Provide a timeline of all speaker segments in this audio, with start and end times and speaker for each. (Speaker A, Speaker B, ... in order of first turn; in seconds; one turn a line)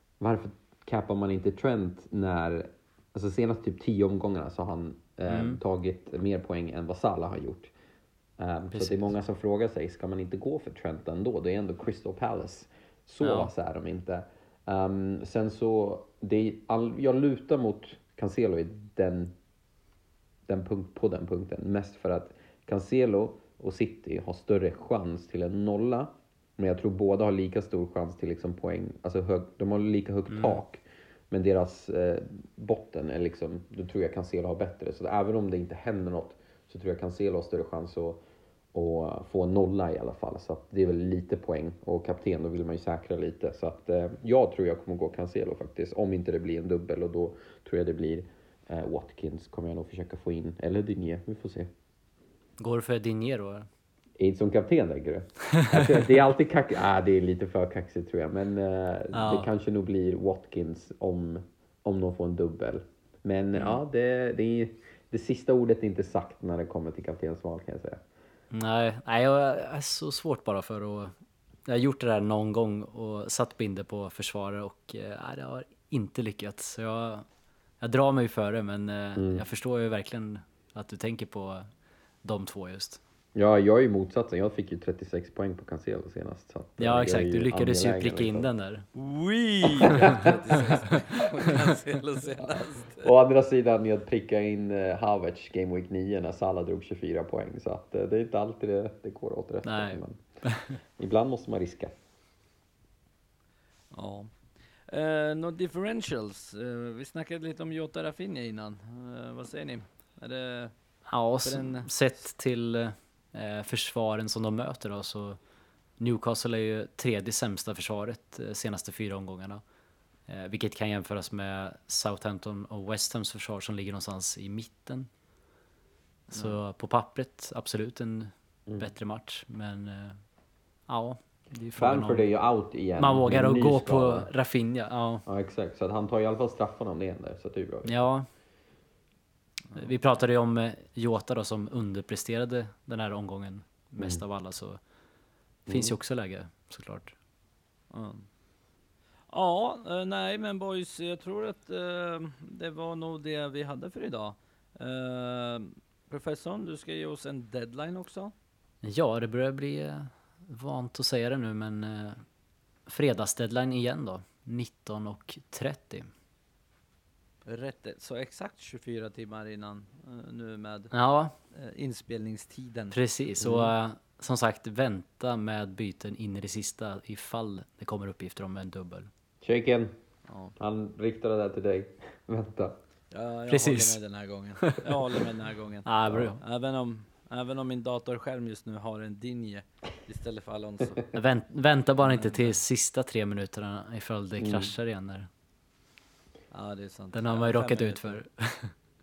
Speaker A: 0.2-7.7
Speaker B: 5.3-5.6
Speaker A: 8.4-19.3
Speaker B: 8.7-9.1
Speaker B: 13.2-13.5
Speaker A: 20.5-38.2
Speaker B: 30.3-30.6
Speaker A: 38.7-51.7
Speaker B: 52.6-53.7
Speaker A: 54.2-68.0
Speaker B: 59.1-59.5
Speaker B: 68.5-71.1
Speaker B: 71.7-77.2
Speaker B: 77.8-81.7
Speaker A: 79.2-79.4
Speaker B: 82.2-83.0
Speaker A: 83.3-88.5
Speaker B: 86.8-88.9
Speaker C: 88.9-93.1
Speaker A: 89.8-90.3
Speaker A: 93.0-100.2
Speaker B: 99.7-100.8
Speaker A: 100.8-102.0
Speaker C: 103.9-110.7
Speaker B: 111.1-115.4
Speaker C: 111.4-111.9
Speaker B: 116.0-119.6
Speaker B: 120.3-125.1
Speaker B: 126.3-130.2
Speaker B: 130.9-132.2
Speaker A: 131.8-134.3
Speaker B: 133.0-135.2
Speaker A: 135.2-138.0
Speaker B: 137.8-138.3
Speaker B: 139.7-144.8
Speaker A: 144.0-144.2
Speaker A: 145.7-145.9
Speaker B: 145.7-147.1
Speaker C: 147.9-148.3
Speaker C: 149.3-158.3
Speaker B: 158.8-162.2
Speaker B: 162.9-166.1
Speaker C: 167.4-170.9
Speaker B: 170.9-171.3
Speaker C: 171.5-173.0
Speaker B: 172.9-179.1
Speaker A: 173.4-173.7
Speaker A: 179.4-179.9
Speaker C: 180.3-180.5
Speaker A: 180.6-182.8
Speaker C: 183.1-191.0
Speaker B: 183.5-184.0
Speaker B: 184.6-184.9
Speaker B: 185.8-186.4
Speaker A: 186.1-186.3
Speaker B: 191.1-195.3
Speaker C: 192.0-192.6
Speaker A: 194.4-194.7
Speaker C: 196.5-198.2
Speaker B: 197.1-198.7